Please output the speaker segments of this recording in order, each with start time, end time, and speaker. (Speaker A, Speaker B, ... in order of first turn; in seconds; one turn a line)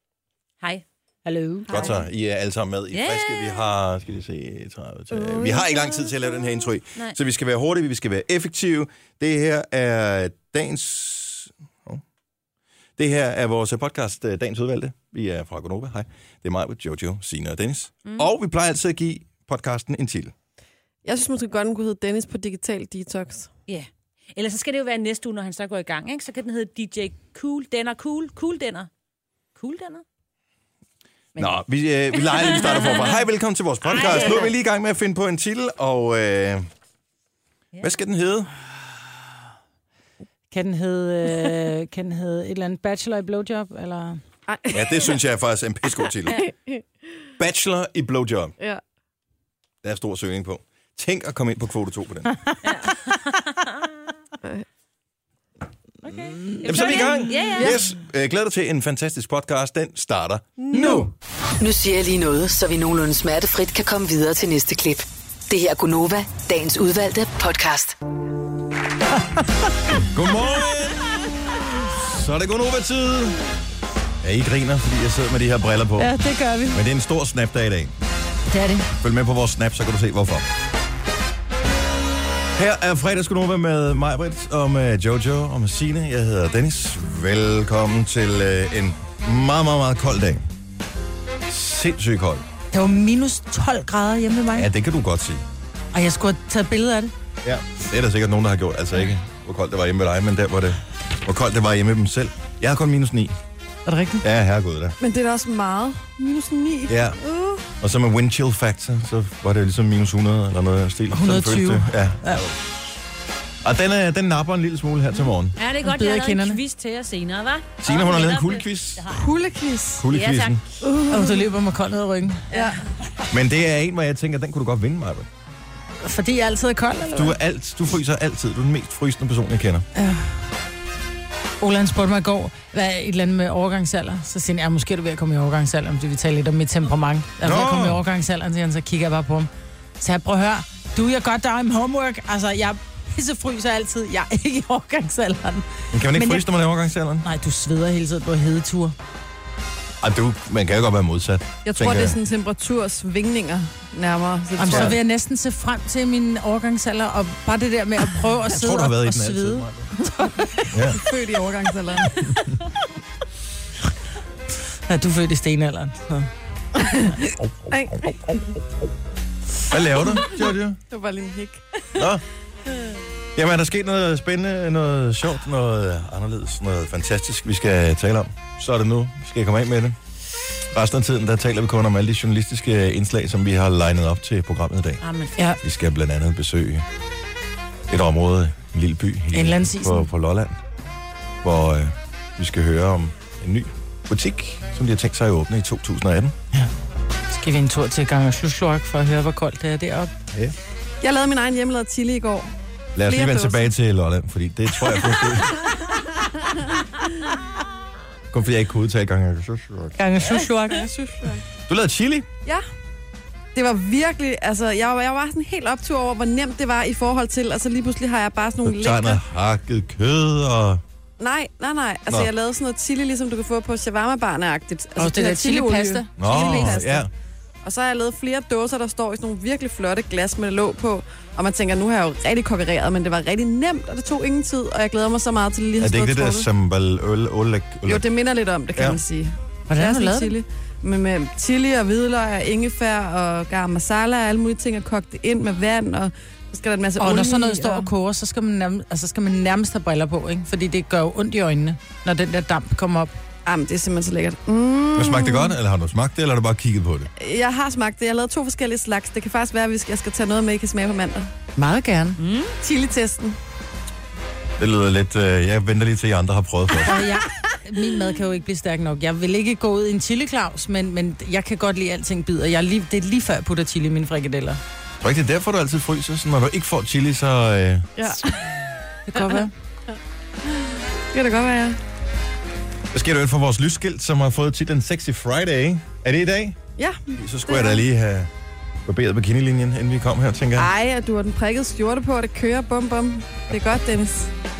Speaker A: 1.2-1.7
Speaker B: 1.7-2.0
Speaker C: 1.7-12.0
Speaker D: 2.9-3.6
Speaker B: 5.1-6.1
Speaker C: 13.0-20.3
Speaker B: 21.0-23.5
Speaker D: 23.7-28.9
Speaker D: 29.6-30.0
Speaker C: 31.4-36.7
Speaker D: 32.2-33.2
Speaker D: 33.9-34.5
Speaker C: 37.8-38.5
Speaker A: 40.5-44.2
Speaker B: 44.5-45.1
Speaker C: 44.7-46.4
Speaker B: 46.2-46.8
Speaker C: 47.4-48.5
Speaker C: 49.8-52.3
Speaker D: 52.6-53.7
Speaker A: 56.0-57.0
Speaker C: 56.1-61.1
Speaker D: 56.6-57.8
Speaker A: 60.7-61.0
Speaker E: 61.6-68.0
Speaker C: 70.1-71.3
Speaker C: 71.9-73.4
Speaker C: 74.2-76.1
Speaker A: 76.0-76.8
Speaker C: 76.7-77.9
Speaker A: 78.5-78.9
Speaker C: 79.0-80.5
Speaker C: 82.5-90.4
Speaker C: 91.5-92.4
Speaker A: 92.7-94.7
Speaker C: 94.5-95.4
Speaker A: 95.9-97.1
Speaker C: 97.4-103.4
Speaker A: 103.8-104.2
Speaker C: 104.2-105.0
Speaker B: 105.0-107.6
Speaker C: 106.9-107.2
Speaker C: 107.8-112.7
Speaker A: 111.1-112.4
Speaker C: 113.6-115.6
Speaker D: 115.5-119.2
Speaker A: 115.8-116.6
Speaker C: 117.8-119.2
Speaker B: 119.1-120.0
Speaker C: 120.0-120.6
Speaker D: 120.1-120.6
Speaker B: 120.8-121.5
Speaker A: 121.1-122.4
Speaker B: 122.5-122.8
Speaker C: 123.3-125.3
Speaker A: 126.0-127.3
Speaker C: 127.1-129.9
Speaker A: 129.9-130.3
Speaker A: 131.6-146.4
Speaker C: 137.4-138.0
Speaker C: 145.9-147.2
Speaker A: 147.2-148.9
Speaker C: 150.0-152.2
Speaker B: 151.6-155.0
Speaker A: 154.6-160.7
Speaker C: 154.7-155.0
Speaker C: 158.5-159.9
Speaker C: 160.7-161.0
Speaker B: 160.9-162.2
Speaker A: 164.9-166.3
Speaker B: 166.8-167.1
Speaker C: 167.4-168.2
Speaker B: 167.7-168.5
Speaker C: 169.7-170.8
Speaker B: 170.2-171.8
Speaker C: 171.9-172.2
Speaker C: 173.3-179.9
Speaker C: 180.7-185.0
Speaker D: 185.0-185.3
Speaker C: 185.6-186.8
Speaker C: 187.9-190.6
Speaker A: 189.3-190.1
Speaker C: 191.4-196.3
Speaker A: 197.3-200.1
Speaker B: 201.0-202.5
Speaker C: 202.9-205.7
Speaker B: 203.0-203.7
Speaker B: 206.4-206.8
Speaker C: 208.3-209.9
Speaker A: 209.9-211.2
Speaker C: 211.7-212.3
Speaker B: 213.5-219.2
Speaker C: 218.6-220.8
Speaker B: 221.2-227.1
Speaker A: 225.0-226.8
Speaker C: 226.2-227.1
Speaker B: 227.6-236.5
Speaker C: 235.8-238.1
Speaker B: 237.9-247.9
Speaker C: 238.7-239.0
Speaker A: 239.7-240.3
Speaker A: 247.0-253.1
Speaker B: 253.4-255.5
Speaker C: 254.9-257.1
Speaker B: 257.2-261.3
Speaker A: 261.6-262.2
Speaker D: 262.2-262.5
Speaker B: 262.6-263.4
Speaker C: 264.6-267.0
Speaker A: 266.9-274.6
Speaker C: 275.0-277.9
Speaker B: 278.0-278.4
Speaker A: 279.1-279.5
Speaker B: 281.1-281.8
Speaker C: 282.9-286.6
Speaker B: 286.8-287.8
Speaker C: 287.1-288.3
Speaker C: 288.9-290.7
Speaker B: 290.6-294.3